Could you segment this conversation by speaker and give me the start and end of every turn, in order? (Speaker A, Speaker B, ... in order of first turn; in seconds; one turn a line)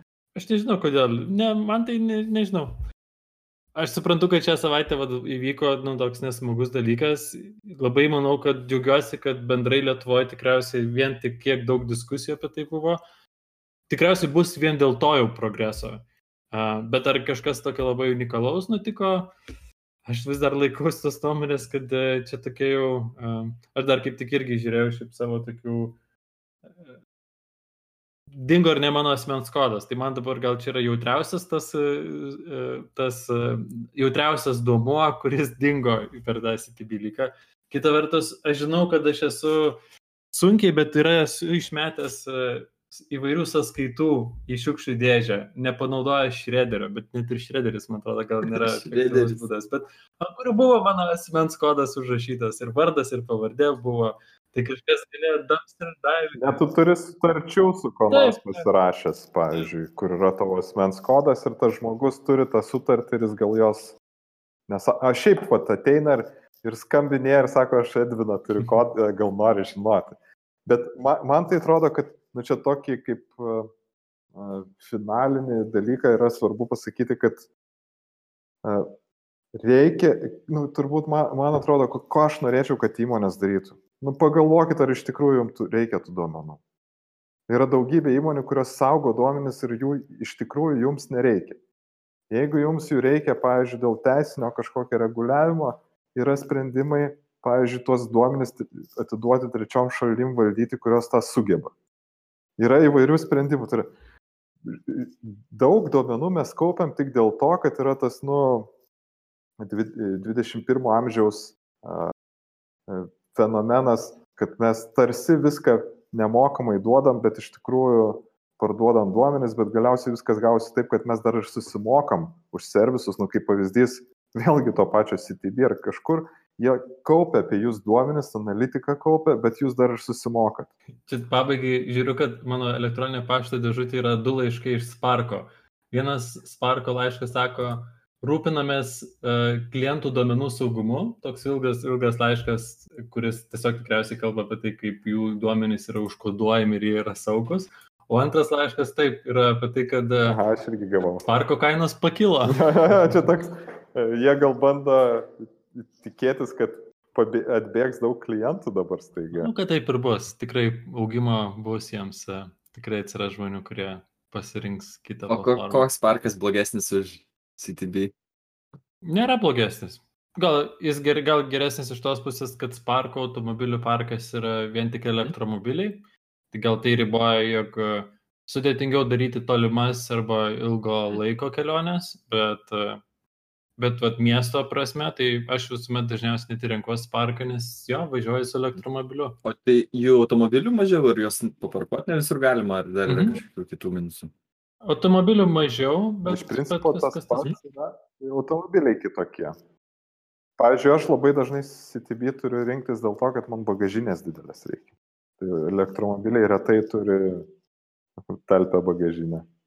Speaker A: 0.3-2.8
Speaker A: 3.8-13.0
Speaker A: 13.9-19.3
Speaker A: 20.1-26.0
Speaker A: 26.7-27.0
Speaker A: 28.3-39.8
Speaker A: 40.3-56.6
Speaker B: 48.4-49.5
Speaker C: 56.4-64.0
Speaker A: 58.1-58.7
Speaker C: 64.7-73.7
Speaker C: 74.3-77.5
Speaker C: 78.6-78.9
Speaker C: 79.5-86.6
Speaker C: 87.5-91.6
Speaker C: 92.3-101.7
Speaker C: 102.6-103.9
Speaker C: 104.6-108.7
Speaker C: 109.6-112.1
Speaker C: 112.9-130.7
Speaker A: 131.1-150.4
Speaker C: 150.3-151.3
Speaker A: 151.2-153.3
Speaker C: 152.5-159.5
Speaker A: 159.3-165.9
Speaker B: 165.3-168.1
Speaker A: 169.0-183.0
Speaker A: 183.8-189.4
Speaker B: 189.4-194.3
Speaker A: 193.1-193.4
Speaker A: 194.8-197.5
Speaker C: 196.3-199.6
Speaker C: 200.6-207.5
Speaker C: 208.2-209.5